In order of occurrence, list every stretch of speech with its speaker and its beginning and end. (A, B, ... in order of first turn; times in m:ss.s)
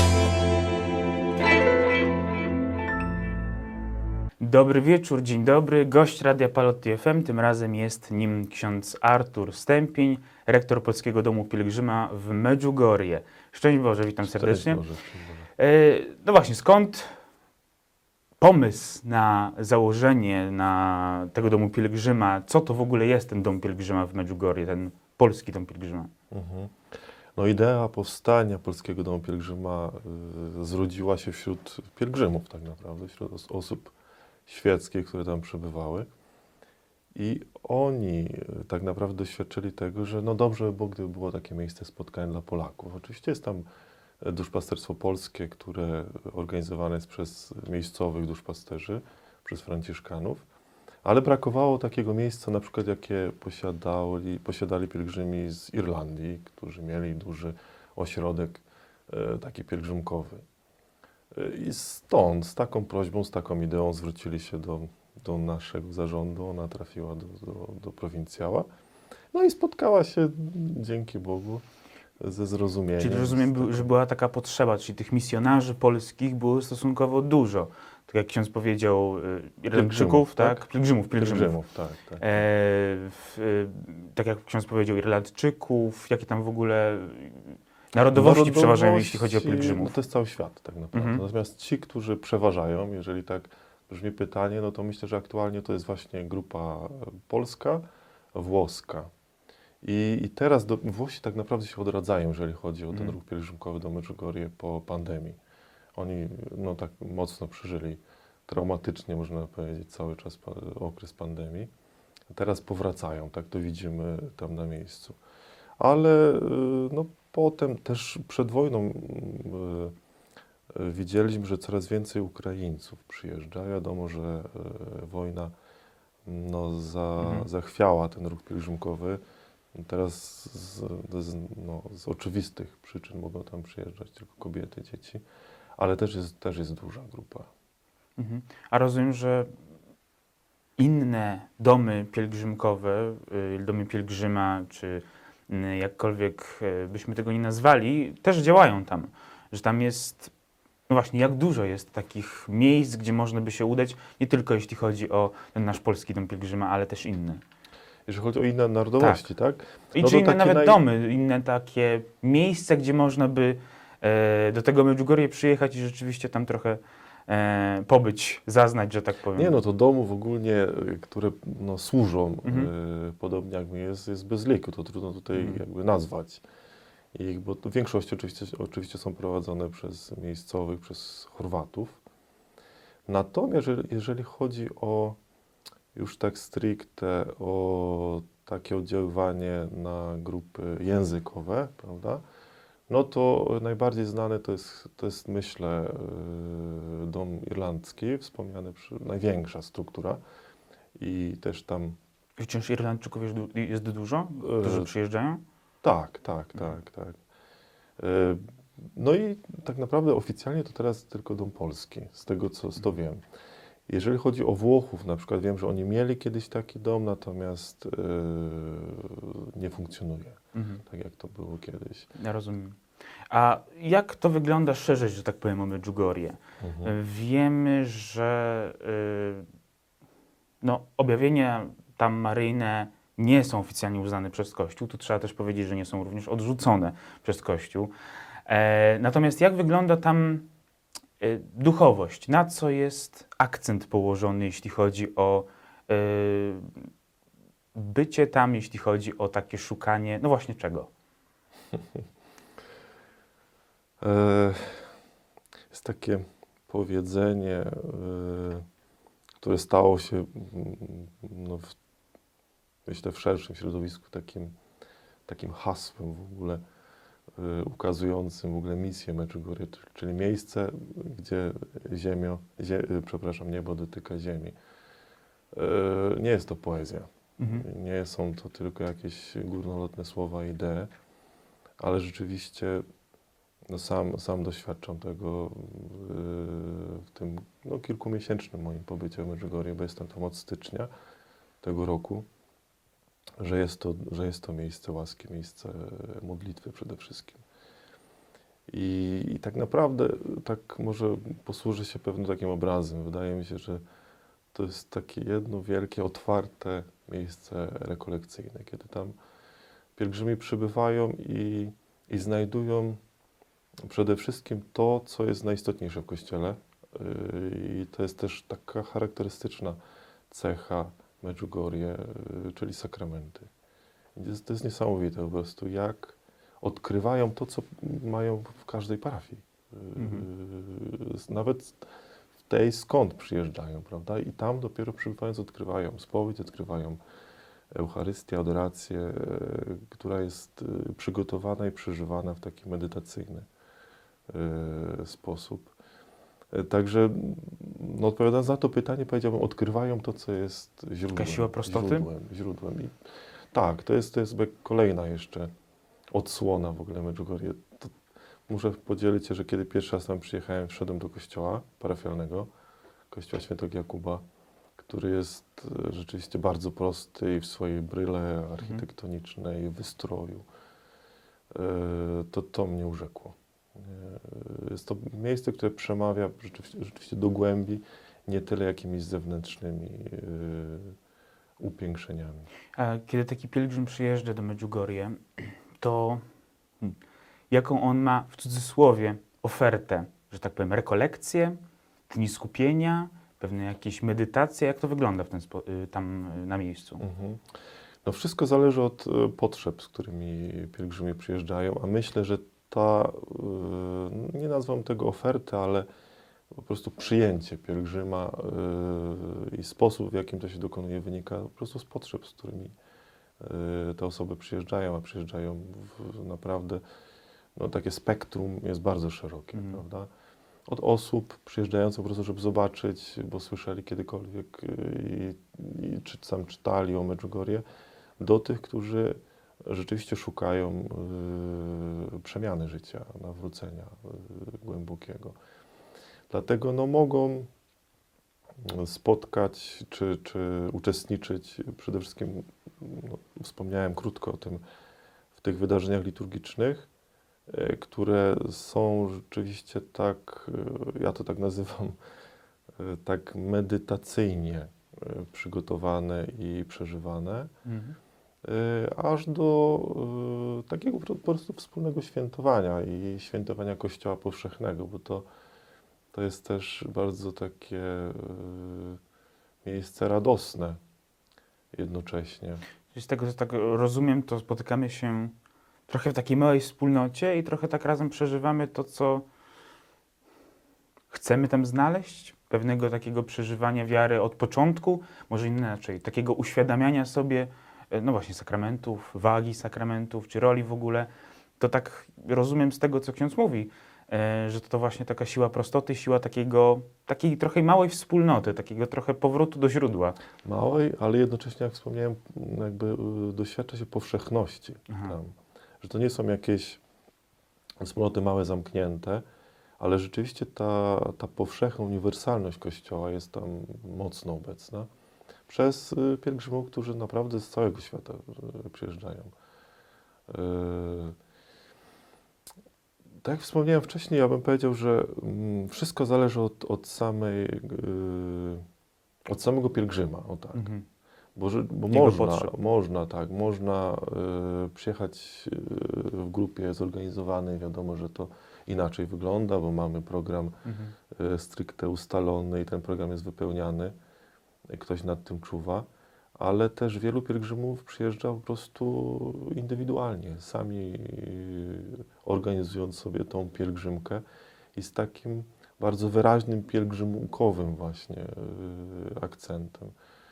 0:04.4-0:14.8 A
0:14.2-0:15.5 B
0:15.6-0:17.2 A
0:18.4-0:26.1 A
0:26.3-0:33.9 B
0:34.5-0:36.1 B
0:37.1-0:43.7 B
0:44.2-0:50.4 B
0:51.0-1:00.4 B
1:01.3-1:08.7 B
1:09.3-1:11.6 B
1:12.2-1:13.9 B
1:13.0-1:21.6 A
1:19.7-1:22.4 B
1:22.2-1:30.0 A
1:28.1-1:39.1 B
1:30.9-1:31.2 A
1:39.8-1:45.4 B
1:42.9-1:43.2 A
1:46.0-1:51.7 B
1:52.3-1:55.2 B
1:55.8-1:59.9 B
2:00.7-2:05.5 B
2:06.2-2:09.2 B
2:07.2-2:07.5 A
2:09.7-2:15.2 B
2:15.8-2:17.5 B
2:18.2-2:19.5 A
2:20.8-2:30.3 A
2:30.9-2:37.4 A
2:38.0-2:40.8 B
2:39.0-2:39.2 A
2:39.9-2:49.6 A
2:49.3-2:56.4 B
2:52.4-2:52.7 A
2:55.3-2:55.6 A
2:57.1-3:02.0 B
3:03.1-3:05.2 B
3:05.9-3:12.2 B
3:12.9-3:20.2 B
3:21.0-3:22.0 B
3:22.4-3:25.4 A
3:24.4-3:24.9 B
3:25.8-3:27.2 B
3:28.0-3:33.2 B
3:33.9-3:42.1 B
3:40.5-3:40.8 A
3:42.1-3:42.8 A
3:43.3-3:49.5 A
3:46.6-3:46.9 B
3:50.6-3:57.9 A
3:58.4-4:00.5 A
4:01.2-4:06.9 A
4:07.7-4:10.9 A
4:14.0-4:15.0 B
4:15.7-4:18.6 B
4:19.4-4:21.7 B
4:22.8-4:24.5 B
4:25.2-4:26.6 B
4:27.4-4:34.5 B
4:35.5-4:40.9 B
4:37.4-4:37.7 A
4:41.8-4:42.8 B
4:43.7-4:50.9 B
4:51.6-4:52.3 B
4:53.4-4:57.4 B
4:58.7-5:03.8 B
5:04.5-5:09.1 B
5:10.0-5:13.0 B
5:13.8-5:19.8 B
5:20.3-5:23.5 B
5:24.2-5:31.8 B
5:30.0-5:30.3 A
5:32.5-5:37.0 B
5:37.7-5:43.4 B
5:44.3-5:45.7 B
5:46.5-5:53.0 B
5:51.1-5:52.1 A
5:53.5-5:55.5 B
5:56.1-5:58.0 B
5:58.5-6:02.5 B
6:03.1-6:04.2 B
6:04.8-6:10.4 B
6:08.6-6:08.8 A
6:11.5-6:21.0 B
6:21.6-6:22.5 B
6:22.7-6:26.2 A
6:27.5-6:37.0 A
6:37.0-6:37.5 B
6:38.0-6:45.9 B
6:46.5-6:52.7 B
6:53.4-6:56.8 B
6:57.6-7:00.1 B
6:59.5-6:59.8 A
7:00.7-7:07.6 B
7:08.2-7:15.4 B
7:16.3-7:17.5 B
7:18.6-7:24.6 B
7:25.3-7:26.9 B
7:27.5-7:32.0 B
7:32.8-7:37.5 B
7:37.6-7:38.0 A
7:38.4-7:45.3 B
7:46.1-7:49.0 B
7:49.6-7:50.8 B
7:51.7-7:52.6 B
7:52.9-7:55.3 A
7:55.9-7:59.3 A
8:01.1-8:20.2 A
8:20.4-8:26.8 B
8:24.9-8:25.2 A
8:27.8-8:29.2 B
8:29.8-8:34.9 B
8:35.5-8:39.3 B
8:40.3-8:41.2 B
8:43.2-8:48.6 B
8:49.3-8:50.7 B
8:50.5-8:50.8 A
8:51.4-9:00.6 B
8:51.9-8:52.5 A
9:00.6-9:00.9 A
9:01.1-9:03.9 B
9:04.7-9:05.9 B
9:06.4-9:14.2 B
9:14.7-9:19.9 B